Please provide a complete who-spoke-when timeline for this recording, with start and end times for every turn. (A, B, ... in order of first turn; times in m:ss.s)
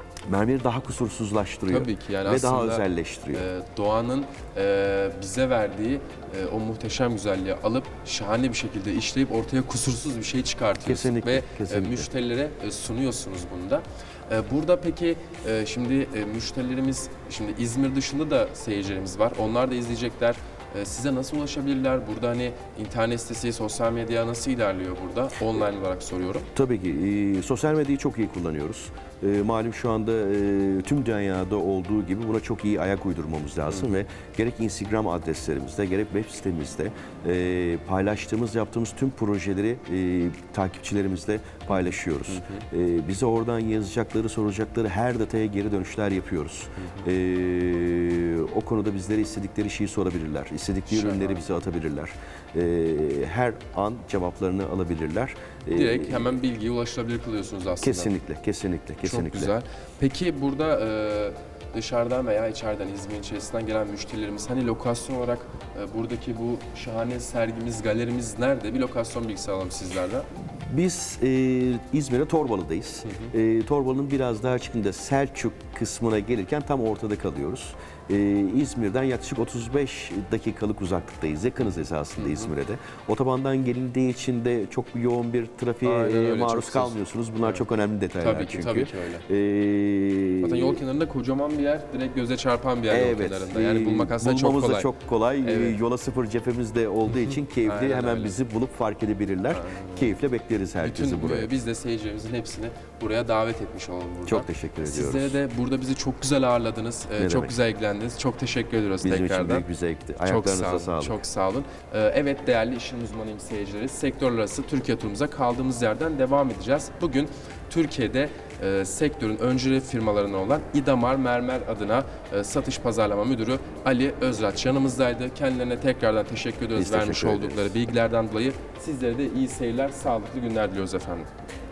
0:00.3-0:03.5 A
0:01.7-0:26.5 B
0:10.8-0:12.1 A
0:26.6-0:56.4 A
0:41.7-0:42.6 B
0:50.9-0:51.4 B
0:55.7-0:58.1 B
0:57.8-0:59.5 A
0:59.0-1:10.3 B
1:10.4-1:30.8 A
1:13.0-1:13.3 B
1:22.2-1:22.5 B
1:25.8-1:27.6 B
1:28.2-1:29.2 B
1:30.4-1:34.9 B
1:32.9-1:41.5 A
1:35.4-1:35.8 B
1:37.1-1:38.4 B
1:39.5-1:40.1 B
1:40.8-1:49.6 B
1:44.3-1:45.4 A
1:47.2-1:47.5 A
1:49.0-1:51.2 A
1:50.2-2:11.3 B
2:06.8-2:07.7 A